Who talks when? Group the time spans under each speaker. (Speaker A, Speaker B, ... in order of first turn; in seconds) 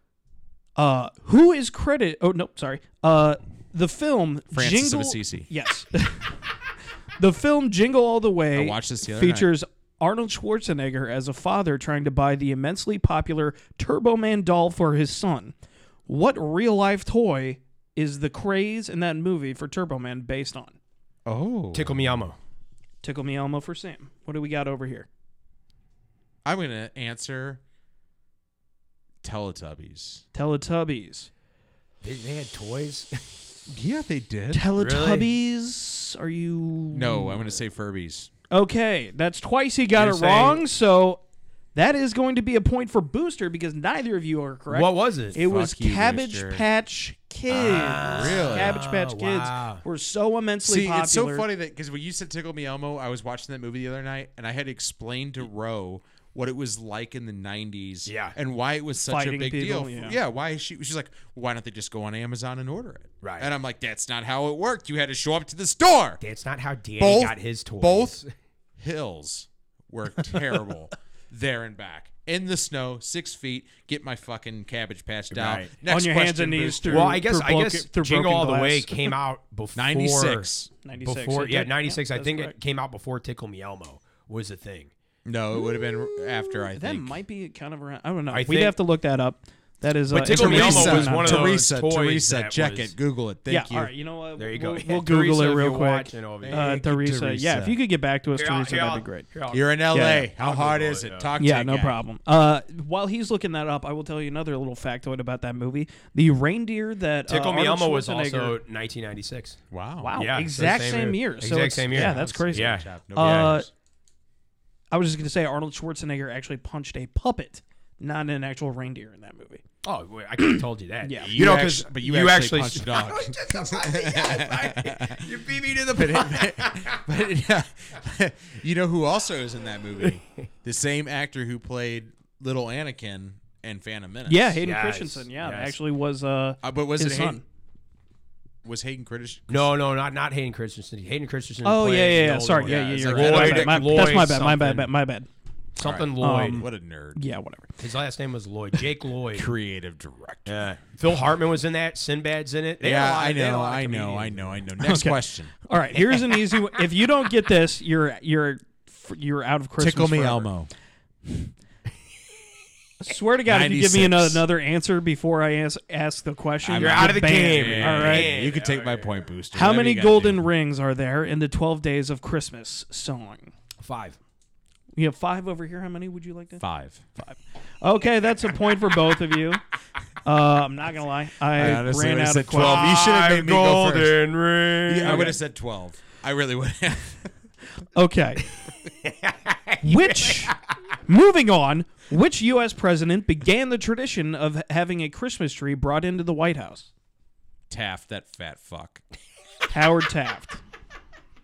Speaker A: 0.8-6.3, 7.2-15.5, 16.1-20.8, 23.0-25.1, 30.3-31.3, 34.5-37.4, 38.5-41.2, 41.7-51.5, 59.0-60.2, 75.8-79.1, 80.8-82.5, 86.7-91.5, 93.5-99.2, 99.9-100.2, 101.4-108.6, 110.0-113.7, 114.9-119.6, 120.4-121.3, 134.3-137.4, 141.6-145.3, 146.2-147.8, 154.8-160.5, 163.0-168.3, 169.5-173.5, 174.9-176.6, 177.2-179.6, 180.2-182.9, 185.0-185.4, 187.9-188.4, 189.8-196.9, 199.7-200.6
Speaker B: 4.5-5.5, 8.5-9.5, 21.2-22.2, 26.4-27.6, 29.2-30.2, 33.7-34.7, 36.9-38.3, 45.3-46.6, 47.5-48.8, 50.6-66.2, 67.0-68.2, 68.8-77.2, 79.7-80.7, 85.2-87.2, 90.2-93.9, 96.4-97.8, 99.5-102.0, 109.7-110.2, 111.9-113.7, 121.2-125.3, 125.9-134.6, 136.6-137.4, 138.6-139.7, 142.6-144.3, 145.8-147.2, 149.3-150.6, 152.8-155.5, 159.8-160.7, 163.4-164.4, 166.6-170.4, 176.6-177.0, 181.5-184.2, 184.8-187.3, 197.7-199.0
Speaker C: 21.7-22.4, 32.0-33.2, 34.8-35.3, 40.0-40.5, 44.7-45.4, 47.5-49.8, 58.0-58.3, 63.2-63.5, 66.2-68.3, 75.3-75.7, 76.9-80.5, 81.0-84.9, 88.3-88.8, 90.1-92.9, 94.4-96.8, 98.3-101.3, 107.3-109.6, 110.2-112.9, 119.8-127.0, 134.6-135.8, 139.5-144.9, 145.8-146.7, 147.8-149.5, 150.5-154.6, 166.8-169.2, 173.8-174.2, 182.5-185.4, 188.8-190.5